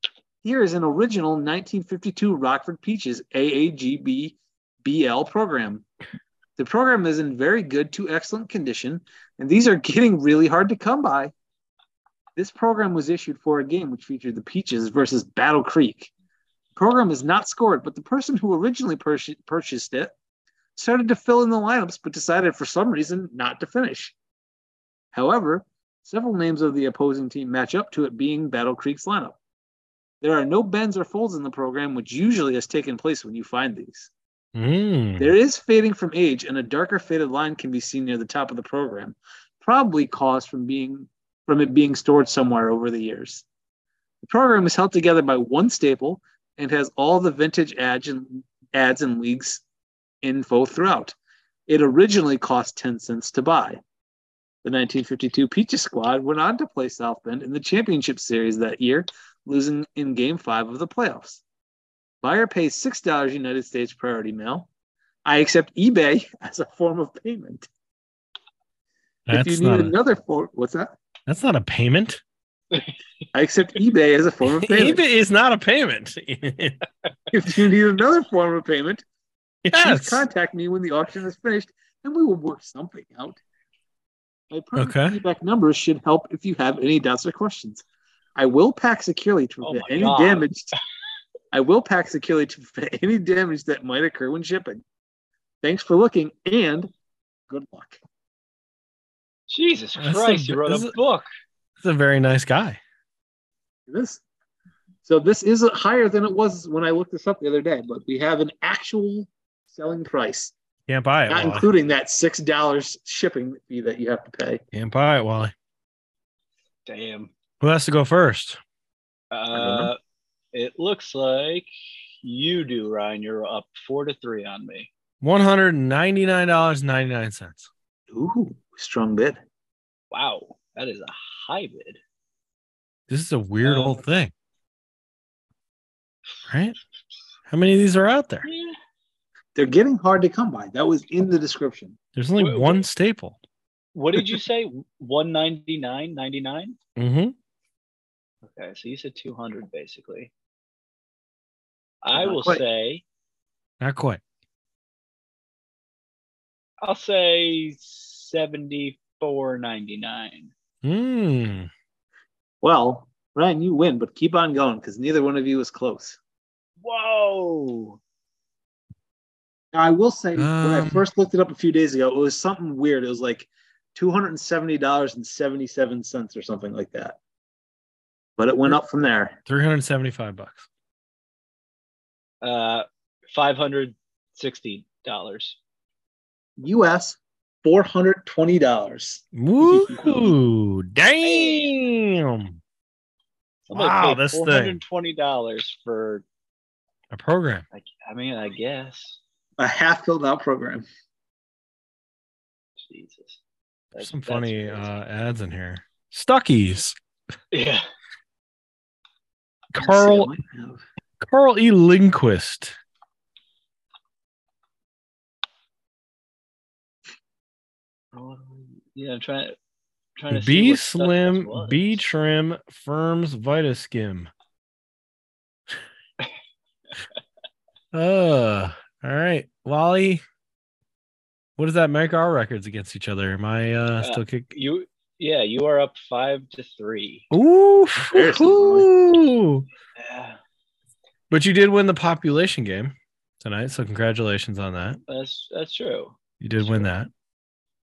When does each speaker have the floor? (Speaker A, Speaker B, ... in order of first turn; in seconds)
Speaker A: 0.4-5.8, 6.6-11.3, 12.4-16.1, 16.8-20.1, 20.8-24.1, 25.1-29.4, 30.2-34.1, 35.2-43.4, 44.2-49.6, 50.2-51.1, 51.7-53.8, 54.6-61.4, 62.2-64.7, 65.2-67.7, 69.3-70.9, 73.3-75.0, 77.3-79.0, 79.7-83.4, 84.5-87.8, 88.4-90.7, 91.5-94.8, 95.6-96.9, 97.5-98.0, 103.9-104.2, 105.0-110.5, 111.3-114.6, 119.5-119.9, 128.1-129.4, 139.6-142.0, 152.2-152.6, 162.6-166.2, 169.7-177.2, 178.4-179.4, 186.6-190.2, 199.6-200.8, 209.8-210.8, 238.0-238.9
Speaker B: 34.5-35.3, 69.3-70.0, 71.3-72.2, 74.5-76.8, 79.7-80.3, 84.8-85.2, 100.0-100.9, 101.8-102.8, 110.9-111.7, 114.7-115.5, 117.6-118.6, 125.2-127.7, 133.1-134.3, 136.5-136.8, 137.5-138.5, 142.2-143.4, 147.0-147.3, 153.8-154.2, 160.8-161.7, 170.4-171.1, 179.5-180.7, 189.3-192.6, 193.7-194.8, 197.1-197.7, 204.0-207.0, 209.7-210.3, 211.2-212.8, 220.3-224.3, 227.9-230.2, 231.6-234.5, 237.3-239.7, 241.3-245.0, 246.4-247.1
Speaker C: 89.6-90.5, 99.5-101.3, 116.9-117.3, 119.3-120.0, 120.5-121.7, 122.2-124.9, 130.1-132.0, 133.6-134.0, 138.4-138.8, 142.4-142.8, 143.9-146.8, 148.5-150.3, 152.0-153.0, 156.8-160.5, 166.8-168.0, 182.4-185.6, 191.2-191.7, 193.7-196.2, 197.7-199.2, 202.8-203.4, 203.9-204.9, 207.5-207.9, 218.1-219.6, 220.2-222.0, 234.0-237.3, 240.0-240.4, 245.1-246.8